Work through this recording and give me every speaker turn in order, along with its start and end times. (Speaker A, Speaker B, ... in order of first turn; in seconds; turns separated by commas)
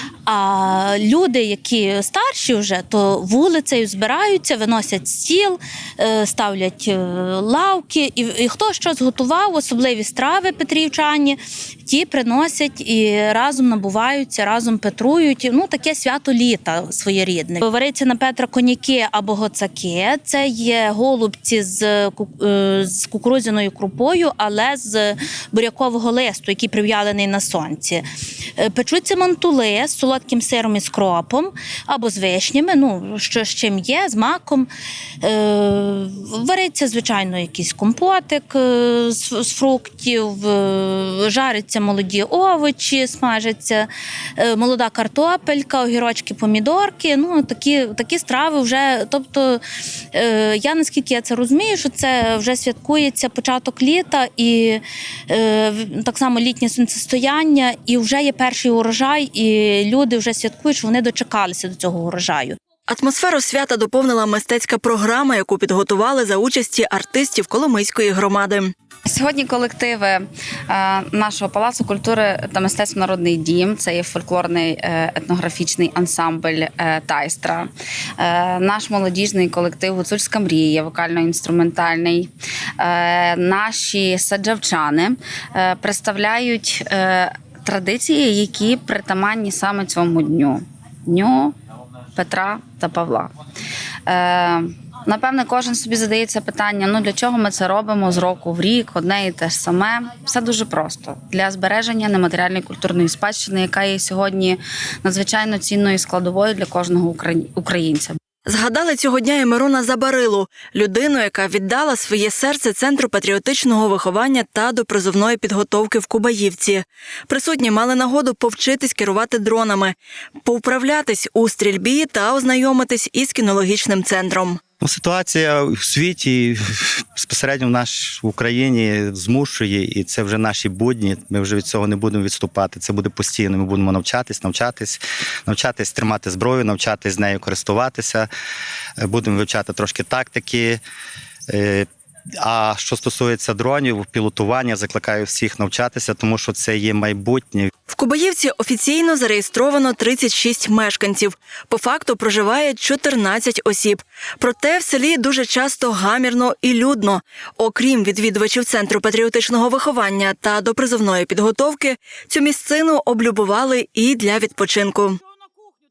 Speaker A: 0.3-11.4, Speaker A: 11.9-28.0, Speaker A: 28.6-34.7, Speaker A: 35.2-43.9, Speaker A: 44.4-49.6, Speaker A: 50.1-54.8, Speaker A: 55.3-58.8, Speaker B: 58.7-62.6, Speaker C: 62.9-68.7, Speaker B: 69.1-91.5, Speaker B: 92.1-93.3, Speaker B: 94.1-108.2, Speaker C: 108.5-124.6, Speaker D: 124.8-126.6, Speaker D: 127.2-138.3, Speaker D: 139.0-140.8, Speaker D: 141.5-141.9, Speaker D: 142.4-147.7, Speaker C: 147.9-165.2